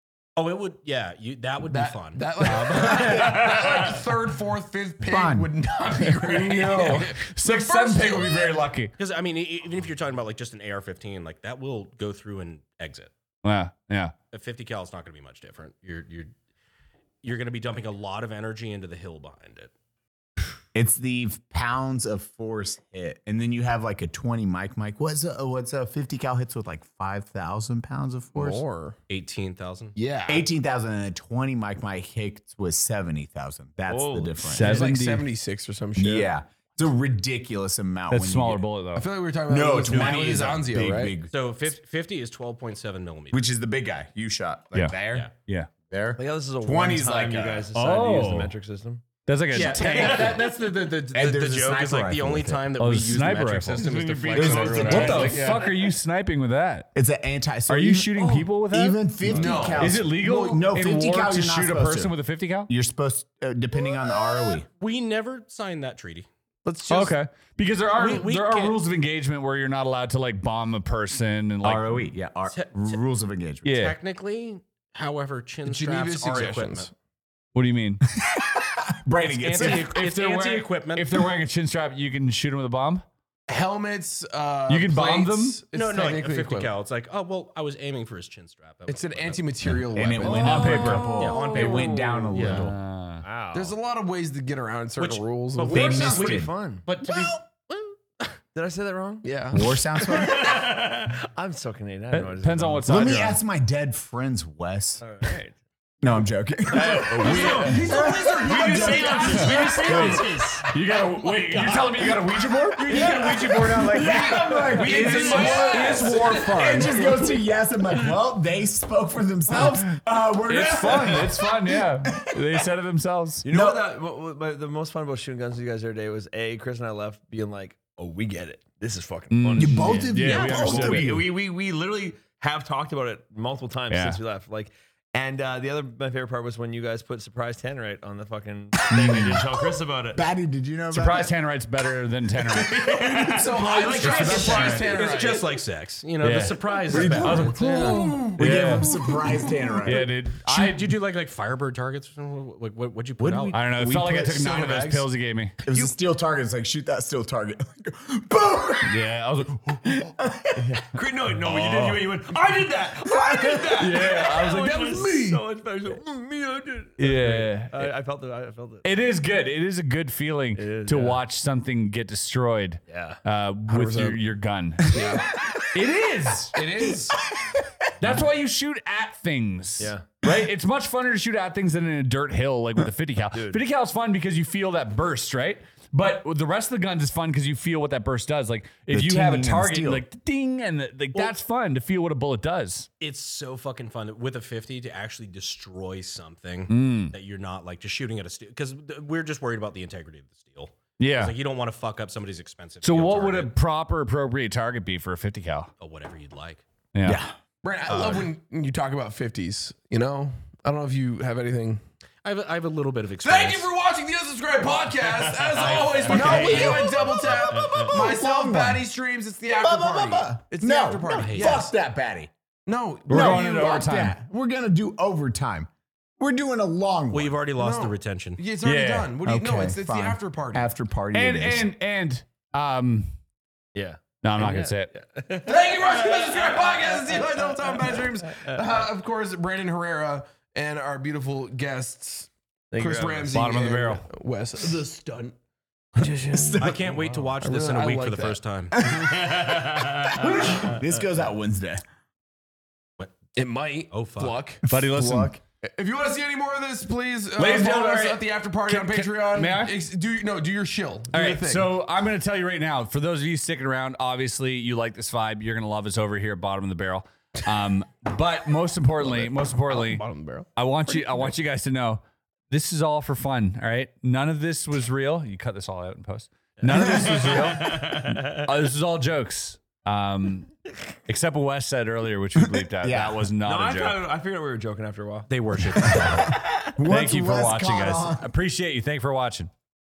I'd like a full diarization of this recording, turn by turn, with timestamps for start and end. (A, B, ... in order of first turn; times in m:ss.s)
0:00.4-0:03.4 A
0:01.7-0:08.6 B
0:02.6-0:03.9 C
0:05.0-0:07.2 D
0:06.6-0:08.9 C
0:09.0-0:13.1 A
0:13.4-0:14.1 C
0:14.3-0:16.3 A
0:17.2-0:19.7 A
0:20.7-0:28.6 D
0:28.4-0:29.0 B
0:29.1-0:30.0 A
0:30.0-0:30.5 B
0:30.3-0:34.9 D
0:33.9-0:34.5 E
0:34.5-0:35.3 C
0:34.6-0:36.3 B
0:36.0-0:38.6 D
0:38.1-0:39.1 C
0:39.0-0:41.2 B
0:39.5-0:41.3 D
0:41.3-0:43.5 A
0:43.3-0:45.3 D
0:44.7-0:45.7 C
0:45.9-0:47.7 D
0:46.2-0:49.0 E
0:47.7-0:48.5 C
0:49.3-0:50.5 C
0:49.5-0:55.3 A
0:49.5-0:50.4 E
0:51.1-0:52.6 D
0:52.8-0:56.9 C
0:53.7-0:55.8 B
0:53.8-0:55.6 E
0:54.3-0:55.4 D
0:57.0-1:02.2 D
0:57.7-1:02.7 C
0:58.2-0:58.4 E
0:59.3-1:00.6 B
1:02.7-1:04.7 D
1:04.8-1:07.2 A
1:06.7-1:12.1 C
1:08.0-1:08.8 A
1:11.6-1:13.8 D
1:12.5-1:13.0 A
1:13.6-1:14.0 C
1:13.7-1:16.9 A
1:15.6-1:16.9 B
1:17.6-1:18.0 C
1:18.2-1:19.9 D
1:19.4-1:21.2 A
1:19.6-1:23.0 C
1:23.5-1:26.7 B
1:24.7-1:25.6 C
1:25.7-1:29.7 A
1:28.9-1:31.3 B
1:29.7-1:32.8 D
1:30.2-1:31.2 C
1:30.6-1:32.6 E
1:31.1-1:32.7 A
1:32.4-1:33.2 C
1:33.2-1:33.8 E
1:33.5-1:36.4 B
1:35.0-1:38.4 A
1:35.7-1:36.5 D
1:35.8-1:36.8 E
1:38.6-1:39.3 E
1:39.2-1:39.8 B
1:39.5-1:40.5 D
1:40.0-1:43.2 E
1:42.1-1:43.4 C
1:42.9-1:45.0 D
1:45.0-1:45.6 E
1:46.0-1:50.3 D
1:46.7-1:53.4 C
1:46.8-1:50.7 E
1:51.2-1:52.1 E
1:52.9-1:56.2 A
1:52.9-2:01.5 D
1:54.6-1:57.1 C
1:54.8-1:56.3 E
1:54.8-1:56.3 B
2:00.5-2:03.4 C
2:02.0-2:02.6 D
2:03.4-2:20.2 E
2:03.5-2:03.8 D
2:09.3-2:11.3 C
2:09.6-2:11.3 D
2:13.9-2:14.2 C
2:18.9-2:19.4 C
2:18.9-2:19.3 D
2:20.1-2:21.3 D
2:20.9-2:22.9 C
2:22.4-2:25.0 E
2:23.2-2:25.5 B
2:23.8-2:25.0 C
2:24.3-2:27.6 A
2:26.2-2:28.9 C
2:26.9-2:30.1 D
2:27.3-2:29.8 B
2:29.8-2:30.9 C
2:30.4-2:33.6 A
2:33.2-2:34.7 D
2:33.5-2:35.6 C
2:34.6-2:34.9 B
2:35.6-2:39.0 D
2:38.8-2:40.0 C
2:39.8-2:40.8 D
2:40.6-2:48.9 E
2:41.4-2:42.1 C
2:43.7-2:45.4 C
2:47.0-2:47.9 C
2:48.8-2:55.1 C
2:50.6-2:51.2 E
2:52.9-2:53.2 E
2:53.7-2:54.2 B
2:54.9-2:55.3 B
2:55.7-2:56.6 C
2:56.6-2:57.2 B
2:57.3-2:57.8 D
2:58.0-3:12.9 C
2:59.8-3:00.1 E
3:03.3-3:03.6 E
3:08.9-3:10.0 D
3:13.0-3:23.5 A
3:16.7-3:17.1 C
3:21.0-3:21.4 C
3:22.8-3:25.7 C
3:25.8-3:26.6 A
3:26.9-3:27.2 C
3:27.0-3:27.4 D
3:27.6-3:31.8 B
3:27.9-3:28.3 A
3:32.2-3:33.7 A
3:33.2-3:41.7 B
3:35.4-3:36.8 A
3:35.6-3:36.5 E
3:36.1-3:38.9 D
3:39.5-3:42.3 D
3:41.2-3:41.6 A
3:42.7-3:43.8 B
3:43.1-3:44.2 C
3:43.1-3:47.4 D
3:47.1-3:48.4 A
3:47.6-3:50.7 B
3:48.6-3:49.2 C
3:49.2-3:51.7 D
3:51.1-3:53.1 C
3:53.8-3:58.6 E
3:54.2-3:54.9 C
3:55.4-4:05.3 B
4:02.7-4:03.4 E
4:03.3-4:04.1 C
4:06.0-4:08.4 B
4:06.2-4:06.8 D
4:06.6-4:08.7 A
4:08.8-4:11.8 D
4:08.9-4:10.2 E
4:13.4-4:14.7 B
4:13.9-4:14.4 A
4:14.7-4:15.4 D
4:14.7-4:15.4 C
4:15.6-4:21.8 B
4:17.4-4:19.8 C
4:21.1-4:44.1 C
4:29.0-4:30.5 B
4:36.6-4:38.5 E
4:42.4-4:43.3 D
4:43.4-4:45.3 E
4:45.3-4:46.4 A
4:45.8-4:48.3 D
4:46.8-4:49.5 C